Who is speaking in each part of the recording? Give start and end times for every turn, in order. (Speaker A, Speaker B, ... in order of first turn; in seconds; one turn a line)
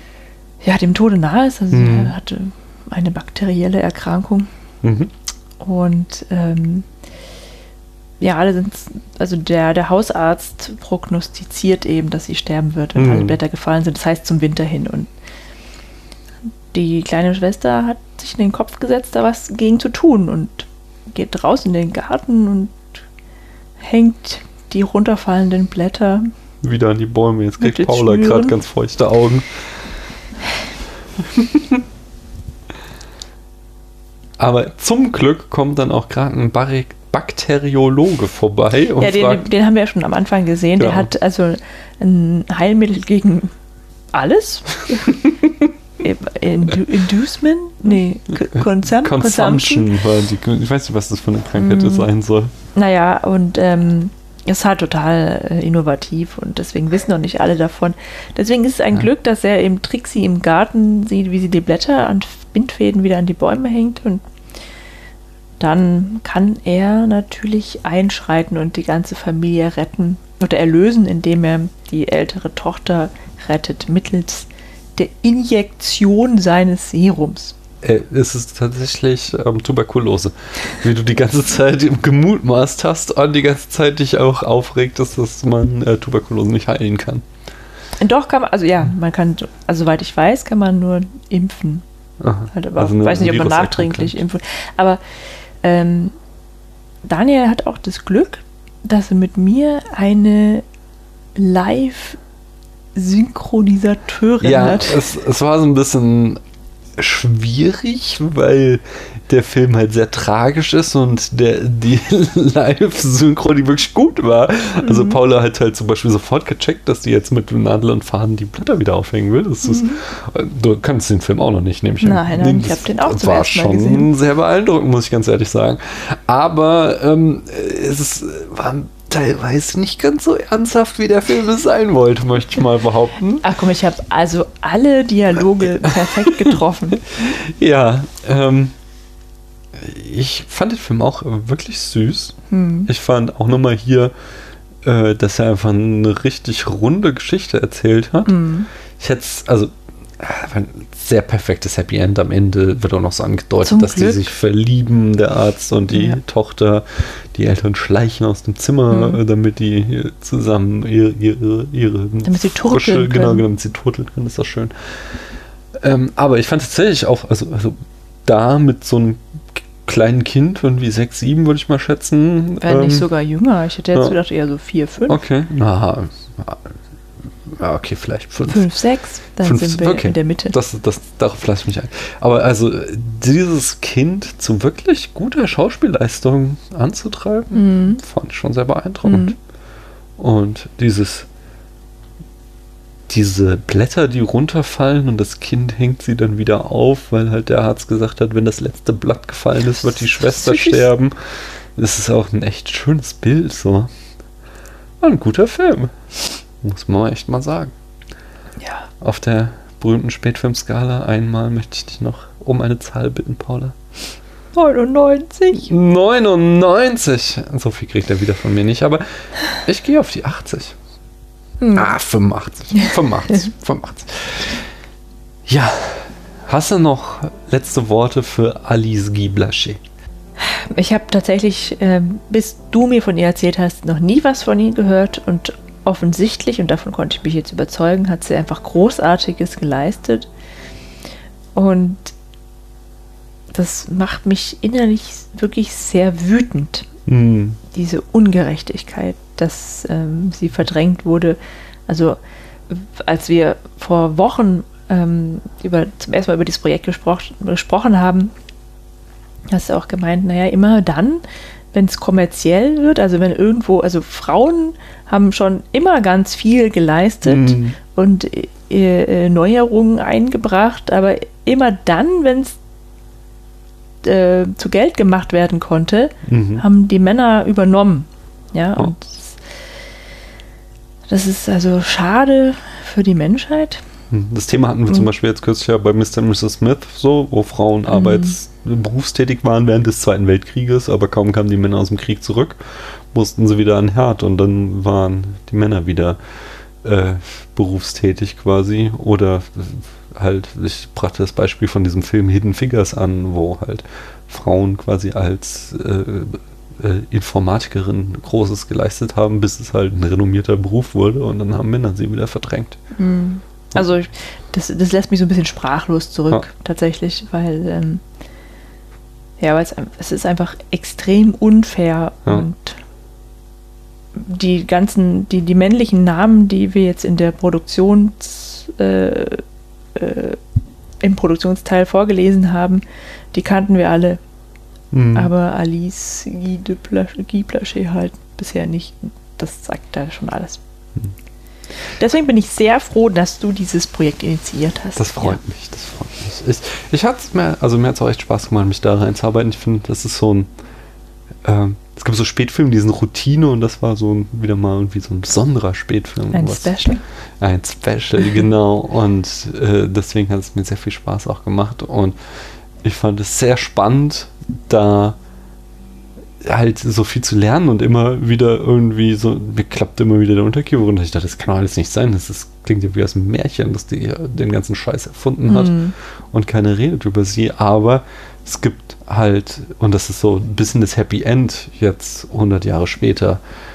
Speaker A: 0.6-4.5
Speaker B: 1.7-2.1
Speaker B: 4.8-5.1
Speaker A: 5.6-6.9
Speaker A: 8.2-15.1
Speaker B: 13.0-13.4
Speaker A: 16.7-22.9
Speaker A: 23.8-26.3
Speaker B: 26.6-29.5
Speaker A: 27.6-28.6
Speaker B: 31.2-31.8
Speaker B: 34.4-39.5
Speaker A: 39.0-43.5
Speaker B: 40.8-41.1
Speaker A: 44.1-45.3
Speaker B: 45.2-45.5
Speaker A: 46.0-49.9
Speaker B: 48.4-52.5
Speaker A: 51.6-52.1
Speaker A: 52.8-64.2
Speaker A: 65.6-77.6
Speaker B: 77.8-87.2
Speaker A: 88.0-91.8
Speaker B: 92.2-94.2
Speaker A: 92.5-95.0
Speaker A: 95.6-96.2
Speaker A: 97.0-100.6
Speaker A: 101.4-102.2
Speaker A: 103.0-105.0
Speaker B: 104.4-106.4
Speaker B: 107.0-133.5
Speaker A: 114.8-115.2
Speaker A: 119.6-120.0
Speaker A: 122.0-124.1
Speaker A: 133.4-137.1
Speaker B: 135.9-136.5
Speaker B: 137.1-138.7
Speaker B: 139.7-142.4
Speaker A: 142.5-142.9
Speaker B: 142.9-144.1
Speaker B: 144.8-148.3
Speaker A: 148.3-148.7
Speaker B: 149.0-165.2
Speaker A: 153.6-154.3
Speaker A: 155.9-156.2
Speaker A: 158.9-159.2
Speaker A: 162.2-163.4
Speaker B: 165.8-173.1
Speaker A: 172.6-175.2
Speaker B: 175.1-176.8
Speaker B: 177.4-178.7
Speaker A: 178.5-180.6
Speaker B: 179.4-189.3
Speaker A: 187.5-188.0
Speaker A: 189.0-189.4
Speaker B: 190.2-191.3
Speaker B: 193.1-201.2
Speaker A: 200.0-200.8
Speaker B: 201.8-203.9
Speaker B: 205.0-205.9
Speaker B: 206.6-207.7
Speaker A: 208.6-208.9
Speaker B: 209.0-213.8
Speaker A: 214.5-215.7
Speaker B: 215.5-220.8
Speaker A: 221.6-221.9
Speaker B: 221.7-224.6
Speaker B: 225.5-229.8
Speaker A: 230.4-240.3
Speaker A: 241.6-242.1
Speaker A: 243.5-246.9
Speaker B: 247.1-247.6
Speaker A: 247.7-258.3
Speaker A: 259.5-272.6
Speaker B: 267.2-267.8
Speaker A: 274.0-279.4
Speaker B: 276.2-276.6
Speaker A: 281.1-283.8
Speaker B: 284.1-296.2
Speaker A: 287.9-288.4
Speaker B: 296.8-312.8
Speaker A: 313.0-318.0
Speaker A: 319.4-322.8
Speaker A: 324.2-329.4
Speaker A: 329.9-330.4
Speaker A: 331.0-334.2
Speaker B: 334.9-335.3
Speaker A: 335.1-340.6
Speaker A: 341.9-345.4
Speaker B: 345.0-350.5
Speaker B: 351.4-356.7
Speaker A: 356.3-357.0
Speaker B: 357.4-362.1
Speaker B: 362.8-365.2
Speaker B: 366.4-383.4
Speaker A: 375.5-375.9